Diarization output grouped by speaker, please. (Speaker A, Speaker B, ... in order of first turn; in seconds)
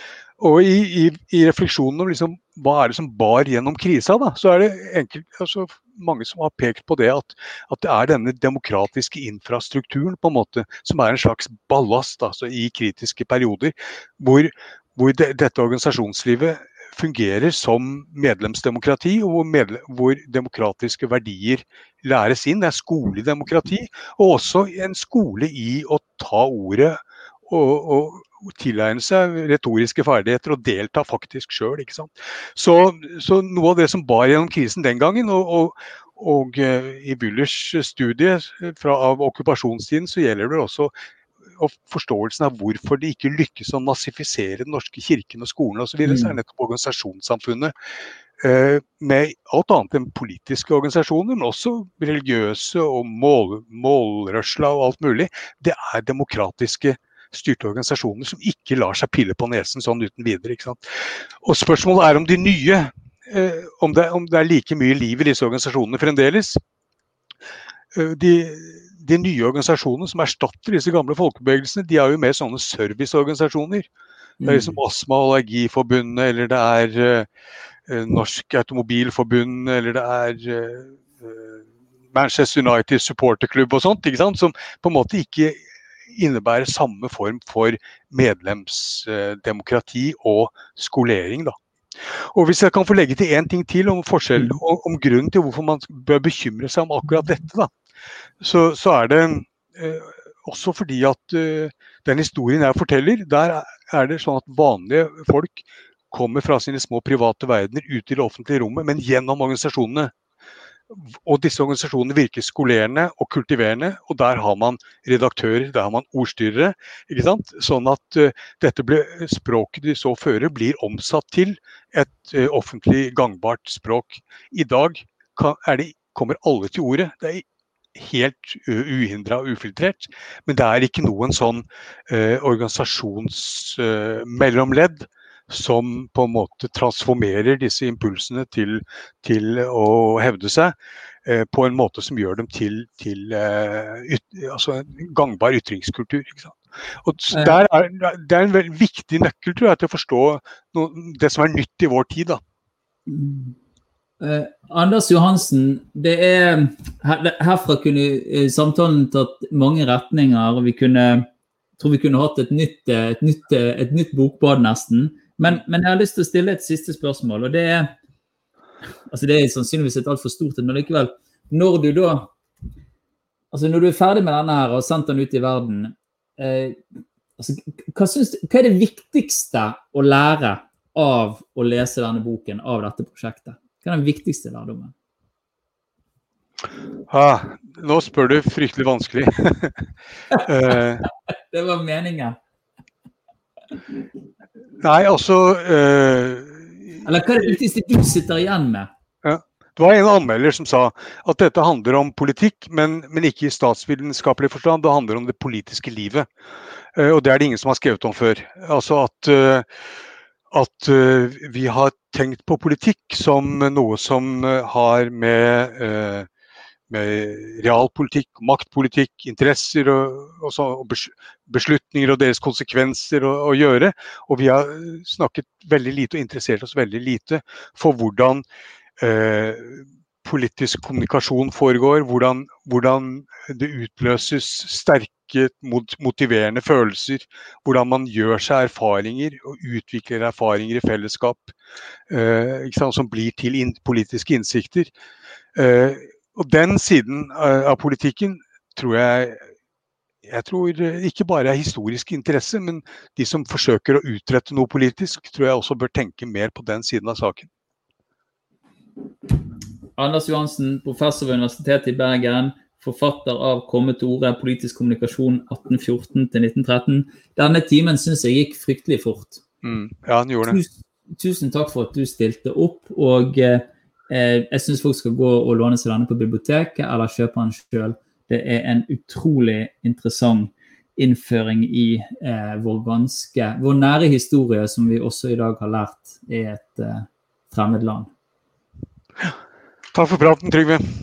Speaker A: 0.4-40.9, 41.5-47.7, 48.4-66.6, 67.9-73.9, 74.5-77.3, 77.9-81.6, 82.1-85.6, 86.1-91.5, 92.3-97.7, 98.4-110.1, 110.9-152.4, 187.1-189.8, 190.4-191.0, 194.8-197.1, 199.2-206.3, 206.9-209.7, 210.5-216.3, 216.9-228.4, 229.0-241.6, 242.1-244.9, 245.6-249.4, 250.2-257.5, 269.6-270.6, 289.9-290.8
Speaker B: 46.0-46.4, 74.4-74.8, 147.3-147.6, 153.1-153.6, 154.2-167.9, 169.1-172.3, 173.5-176.8, 177.4-184.9, 191.0-192.4, 197.0-198.9, 260.0-269.4, 270.4-288.1